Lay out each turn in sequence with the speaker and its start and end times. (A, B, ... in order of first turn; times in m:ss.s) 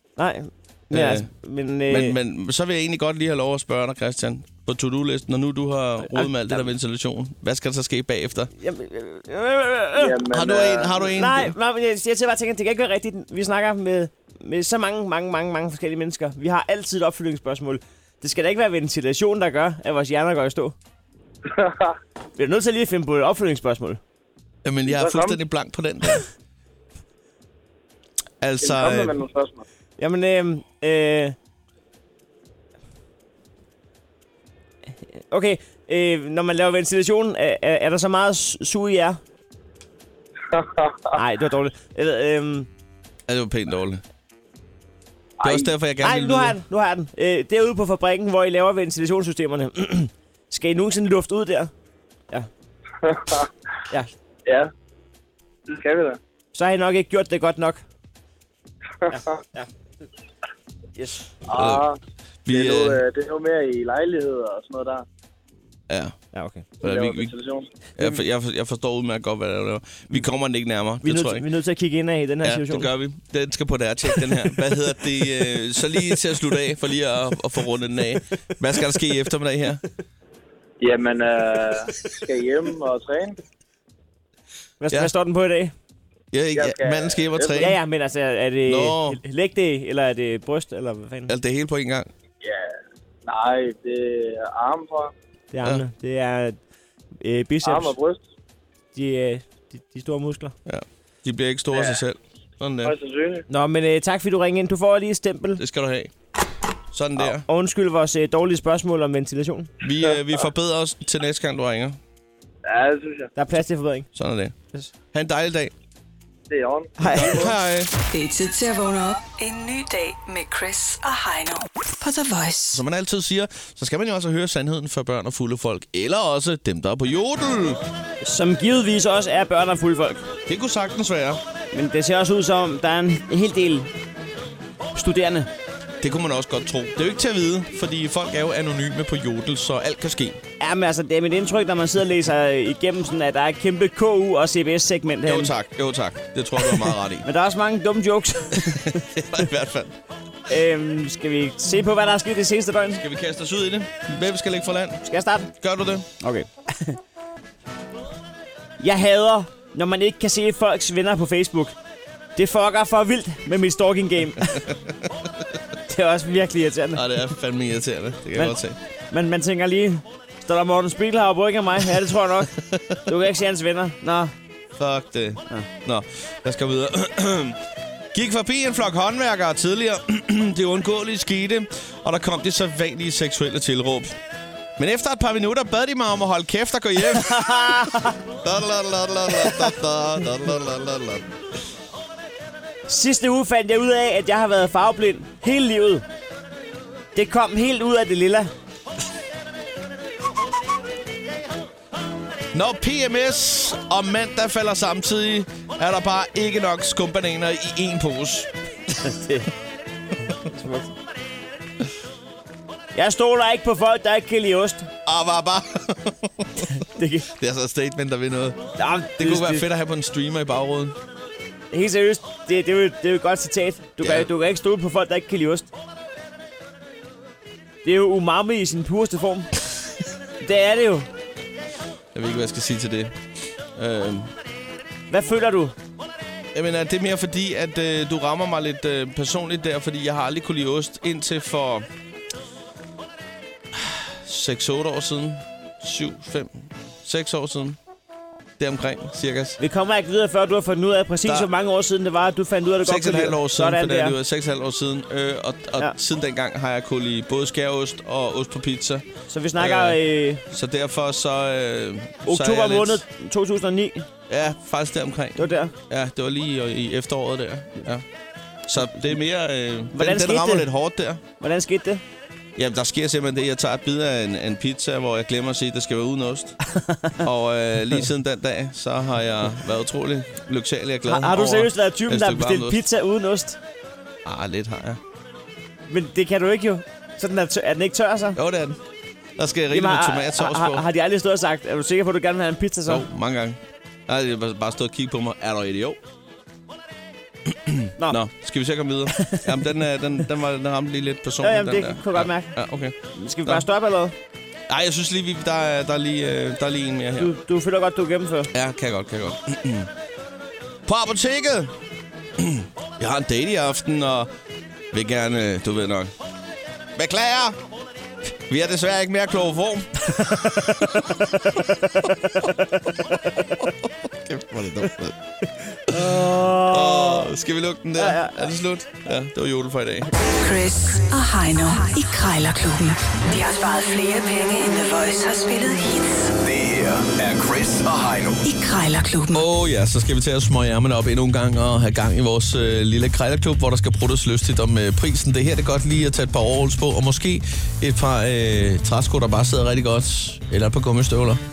0:00.2-0:02.2 A
0:00.9-0:01.3 B
0:01.9-0:08.5 B
0:06.0-0:06.7 A
0:08.6-0:10.2 A
0:10.0-0:11.0 C
0:10.3-0:11.5 B
0:11.1-0:20.8 A
0:21.5-0:21.9 C
0:22.4-0:24.0 A
0:24.6-0:26.3 B
0:24.9-0:25.4 C
0:28.4-0:29.2 B
0:28.6-0:29.6 C
0:30.0-0:31.3 A
0:35.3-0:39.2 A
0:40.5-0:41.0 C
0:41.2-0:42.7 A
0:43.3-0:44.0 B
0:45.4-0:45.7 C
0:45.4-0:46.6 B
0:46.0-0:51.7 A
0:53.0-0:53.5 C
0:54.4-0:54.7 C
0:55.7-0:56.2 C
0:56.5-0:57.8 A
0:59.1-0:59.7 A
1:01.0-1:01.2 A
1:01.5-1:05.0 C
1:01.5-1:01.8 B
1:02.4-1:03.0 B
1:05.9-1:06.1 B
1:06.3-1:06.7 A
1:06.8-1:07.7 C
1:06.8-1:07.3 B
1:08.0-1:11.4 B
1:11.0-1:12.9 A
1:12.4-1:19.8 B
1:20.8-1:23.4 C
1:24.8-1:25.7 A
1:26.3-1:27.8 B
1:26.5-1:27.7 C
1:27.6-1:31.3 A
1:28.7-1:29.2 B
1:31.3-1:32.1 B
1:32.4-1:35.1 C
1:35.5-1:36.6 A
1:37.2-1:37.9 A
1:37.6-1:38.2 C
1:38.9-1:40.5 A
1:40.6-1:42.9 B
1:41.7-1:42.0 C
1:42.8-1:43.4 C
1:43.5-1:45.6 A
1:45.6-1:46.1 B
1:46.9-1:47.4 B
1:47.2-1:49.7 A
1:49.8-1:52.0 B
1:52.6-1:53.3 C
1:53.4-1:54.1 A
1:54.2-1:54.5 B
1:55.1-1:55.7 B
1:56.5-1:57.5 C
1:57.0-1:57.5 A
1:57.1-1:57.9 B
1:58.1-2:02.8 D
2:02.7-2:07.8 B
2:08.2-2:10.2 A
2:10.5-2:11.4 B
2:11.7-2:13.9 A
2:14.9-2:15.5 A
2:16.0-2:20.4 B
2:20.6-2:25.5 A
2:25.2-2:27.2 B
2:26.6-2:29.0 A
2:28.7-2:29.9 B
2:30.5-2:33.0 A
2:33.0-2:35.0 B
2:35.0-2:35.5 A
2:35.6-2:36.1 B
2:36.2-2:37.0 A
2:38.8-2:41.8 A
2:42.4-2:44.6 A
2:45.9-2:47.0 A
2:46.9-2:48.8 B
2:49.1-2:52.5 A
2:52.6-2:53.0 B
2:53.0-2:54.3 A
2:54.8-2:57.6 B
2:58.1-3:04.1 B
3:04.8-3:11.2 B
3:07.1-3:08.2 A
3:09.4-3:09.7 A
3:12.9-3:16.0 A
3:17.1-3:18.5 A
3:22.5-3:28.5 B
3:29.0-3:29.5 A
3:30.4-3:30.9 A
3:32.9-3:34.9 A
3:35.0-3:36.7 B
3:36.7-3:37.3 A
3:37.3-3:38.6 B
3:38.8-3:39.6 A
3:39.2-3:41.0 B
3:41.7-3:45.7 A
3:44.0-3:44.3 B
3:47.8-3:49.5 A
3:50.4-3:51.1 A
3:52.1-3:53.2 B
3:53.7-3:54.3 B
3:55.1-3:55.7 A
3:56.5-4:01.8 B
4:03.7-4:06.5 B
4:07.0-4:07.8 B
4:08.6-4:09.6 B
4:09.6-4:14.2 A
4:12.8-4:19.0 B
4:19.3-4:20.4 A
4:19.6-4:20.0 B
4:20.5-4:23.0 B
4:22.2-4:24.1 A
4:24.3-4:28.0 B
4:25.4-4:25.7 A
4:28.7-4:31.2 B
4:29.9-4:30.6 A
4:31.4-4:32.0 A
4:32.6-4:36.6 B
4:36.7-4:37.2 A
4:37.2-4:42.8 B
4:41.0-4:43.6 A
4:44.2-4:45.0 B
4:45.9-4:48.4 A
4:48.4-4:48.8 B
4:49.4-4:50.8 B
4:49.7-4:53.0 A
4:52.9-4:56.0 B
4:57.5-5:03.6 B
4:59.2-4:59.5 A
5:01.4-5:02.5 A
5:03.1-5:04.1 A
5:04.7-5:07.3 B
5:07.2-5:08.5 A
5:08.5-5:09.9 B
5:10.9-5:11.7 B
5:12.4-5:14.3 B
5:14.9-5:16.1 B
5:17.0-5:17.5 B
5:18.5-5:21.1 B
5:20.7-5:21.0 A
5:22.0-5:23.7 A
5:23.6-5:25.1 B
5:25.7-5:27.3 A
5:25.9-5:30.1 B
5:28.0-5:28.5 A
5:30.4-5:36.3 D
5:36.4-5:38.4 E
5:38.4-5:39.4 D
5:39.3-5:51.4 B